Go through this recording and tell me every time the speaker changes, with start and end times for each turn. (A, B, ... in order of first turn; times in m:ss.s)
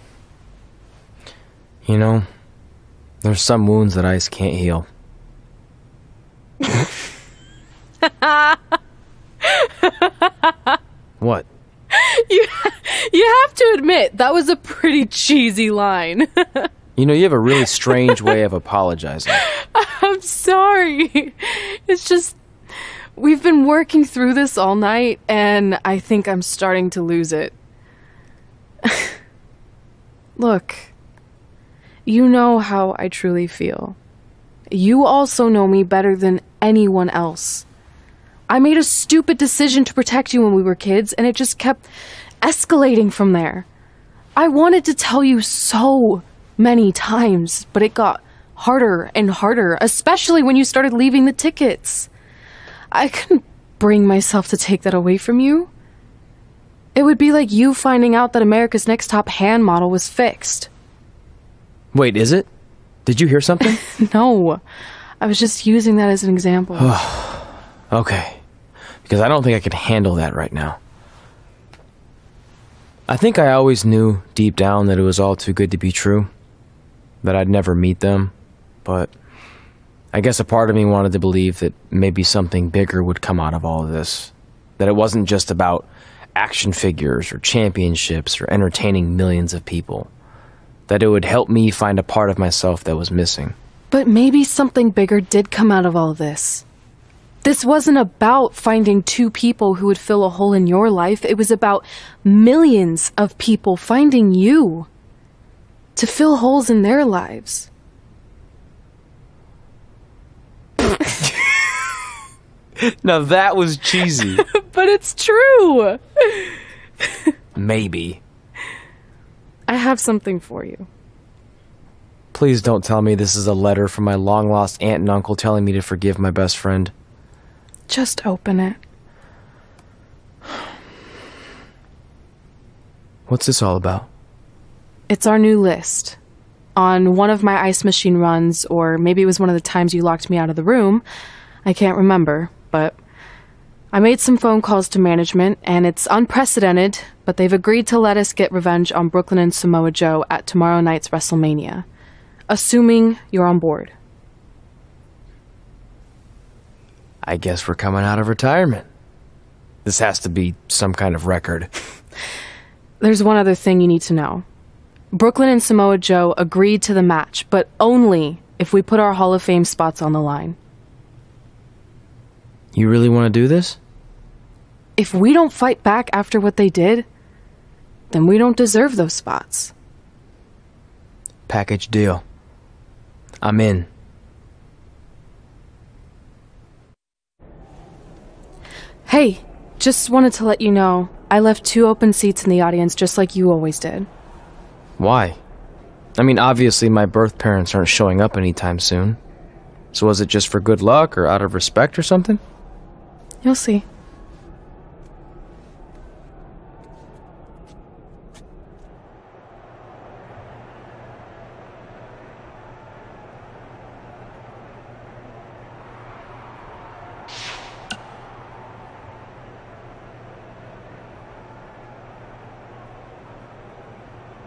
0:01.8-0:02.2 A
0:03.2-0:04.9 A
0:08.0-0:08.6 B
0:09.4-0:10.5 B
0:11.2-0:11.4 A
0:11.9-0:16.7 B
0:17.0-0:19.4 A
0:17.9-0:18.4 B
0:19.3-0:22.4 B
0:23.2-0:27.5 B
0:28.8-0:29.2 B
0:30.4-0:30.9 B
0:32.0-0:34.0 B
0:34.7-0:37.6 B
0:38.5-0:41.8 B
0:42.4-0:43.6 B
0:44.4-0:52.1 B
0:52.9-0:55.7 B
0:57.0-1:00.7 B
1:01.9-1:02.5 A
1:03.0-1:03.8 A
1:04.0-1:04.6 B
1:05.2-1:06.9 B
1:06.8-1:08.4 A
1:09.0-1:10.8 A
1:13.1-1:16.3 A
1:17.2-1:18.3 A
1:18.8-1:19.1 A
1:20.1-1:30.1 A
1:30.9-1:33.5 A
1:33.9-1:36.6 B
1:37.4-1:44.9 B
1:46.0-1:47.7 B
1:52.9-1:54.4 A
1:54.4-1:56.5 B
1:57.6-1:58.2 A
1:59.7-2:00.9 B
2:02.3-2:06.9 A
2:07.9-2:08.8 B
2:13.3-2:14.1 A
2:15.1-2:16.2 B
2:16.8-2:21.0 B
2:21.6-2:23.0 B
2:23.9-2:31.8 B
2:32.5-2:33.9 B
2:37.2-2:38.8 A
2:39.8-2:41.7 A
2:43.0-2:44.4 B
2:45.1-2:50.6 B
2:52.7-2:53.8 A
2:55.0-2:57.0 B
2:58.1-2:59.7 B
3:01.5-3:02.2 A
3:03.4-3:03.9 A
3:09.1-3:14.1 B
3:15.0-3:15.4 A
3:16.2-3:19.2 A
3:19.9-3:22.4 A
3:23.4-3:23.8 B